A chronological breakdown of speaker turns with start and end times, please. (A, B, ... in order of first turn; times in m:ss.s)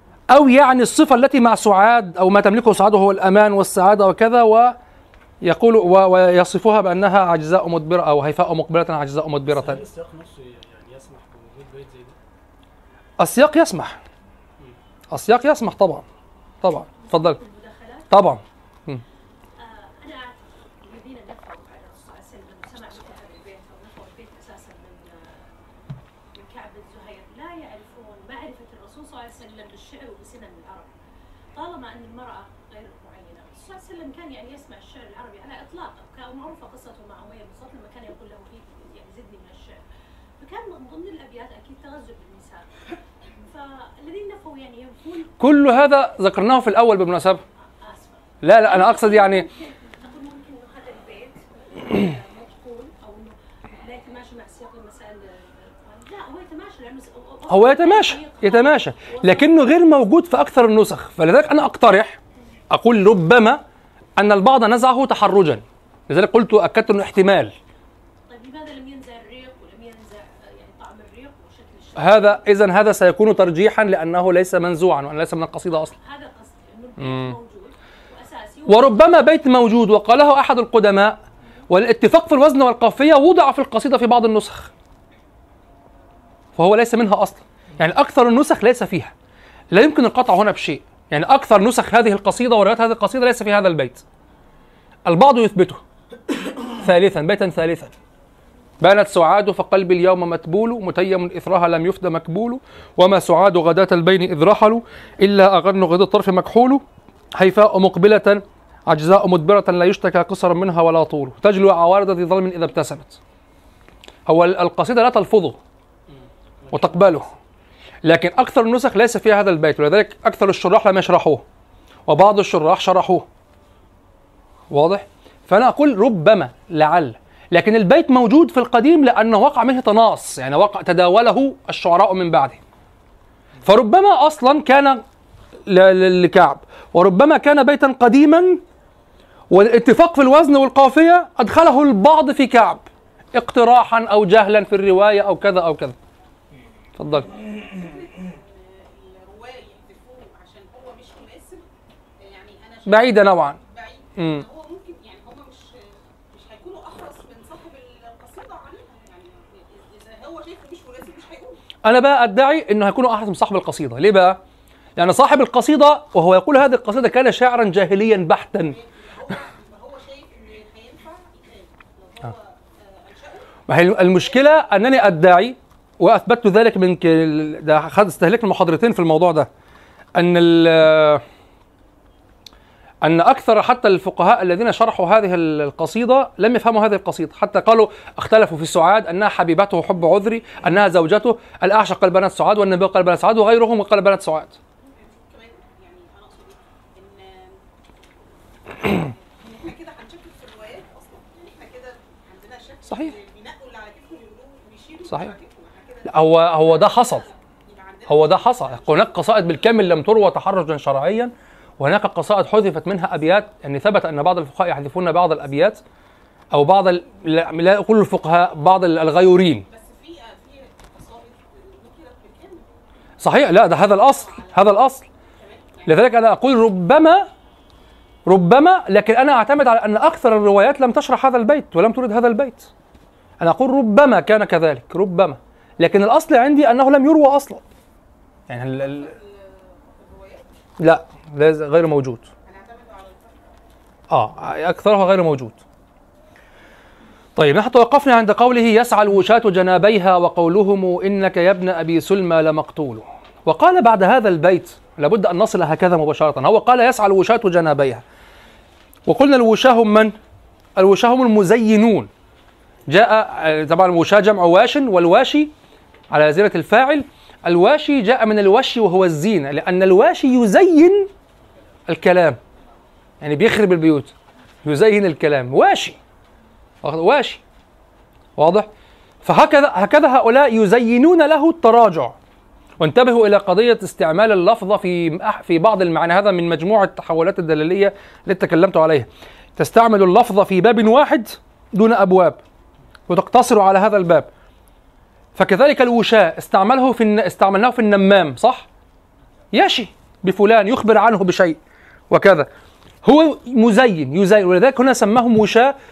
0:00.3-0:04.8 A
0:05.4-0:09.8 A
0:09.5-0:12.2 B
0:13.2-0:14.0 A
0:15.1-0:16.0 A
0:16.6-0:17.4 A
0:17.1-0:18.1 C
0:18.1-0:19.0 A
0:19.6-0:25.4 C
0:26.4-0:30.9 C
0:31.6-0:39.8 C
0:40.4-0:42.7 C
0:43.4-0:45.4 C
0:45.4-0:47.4 A
0:47.8-0:59.6 C
0:48.4-0:49.5 A
0:57.5-1:03.6 A
1:04.2-1:07.5 A
1:08.3-1:12.4 C
1:12.0-1:15.9 A
1:15.9-1:19.1 C
1:17.0-1:17.4 A
1:18.7-1:21.2 A
1:21.7-1:24.7 A
1:26.6-1:29.1 A
1:29.7-1:34.0 A
1:35.1-1:35.8 A
1:36.7-1:37.9 A
1:38.8-1:46.8 A
1:47.4-1:53.2 A
1:54.3-1:55.6 A
1:56.7-1:57.1 B
1:56.7-1:57.3 A
1:58.0-2:01.4 A
2:02.1-2:03.3 A
2:04.7-2:12.6 A
2:13.6-2:15.0 A
2:15.7-2:18.6 A
2:19.5-2:22.8 A
2:23.4-2:26.0 A
2:27.0-2:27.3 A
2:27.6-2:31.6 D
2:32.2-2:35.7 D
2:32.9-2:33.6 A
2:34.2-2:34.4 A
2:36.3-2:41.6 D
2:41.8-2:44.4 A
2:45.0-2:48.8 A
2:48.7-2:54.4 D
2:53.7-2:59.5 A
3:00.2-3:01.2 A
3:03.0-3:14.6 A
3:14.8-3:17.6 D
3:18.7-3:29.7 D
3:22.9-3:23.2 A
3:25.1-3:25.3 A
3:26.1-3:27.3 A
3:28.1-3:35.8 A
3:36.5-3:39.7 A
3:39.7-3:42.7 D
3:43.2-3:45.0 A
3:43.7-3:46.1 D
3:45.9-3:47.3 A
3:48.3-3:52.7 A
3:53.4-3:57.6 A
3:58.5-3:59.1 A
3:58.6-4:00.5 D
4:00.8-4:02.3 A
4:02.5-4:03.5 D
4:04.1-4:05.6 A
4:07.4-4:18.0 A
4:19.1-4:20.1 A
4:20.8-4:22.1 A
4:22.9-4:25.5 A
4:26.1-4:31.1 A
4:31.9-4:32.4 A
4:33.2-4:36.0 A
4:36.8-4:37.4 A
4:38.4-4:38.7 A
4:39.2-4:42.1 A
4:42.8-4:52.4 A
4:53.1-4:54.3 A
4:55.4-4:58.7 A
4:59.5-5:01.6 A
5:02.1-5:02.5 A
5:03.0-5:05.8 A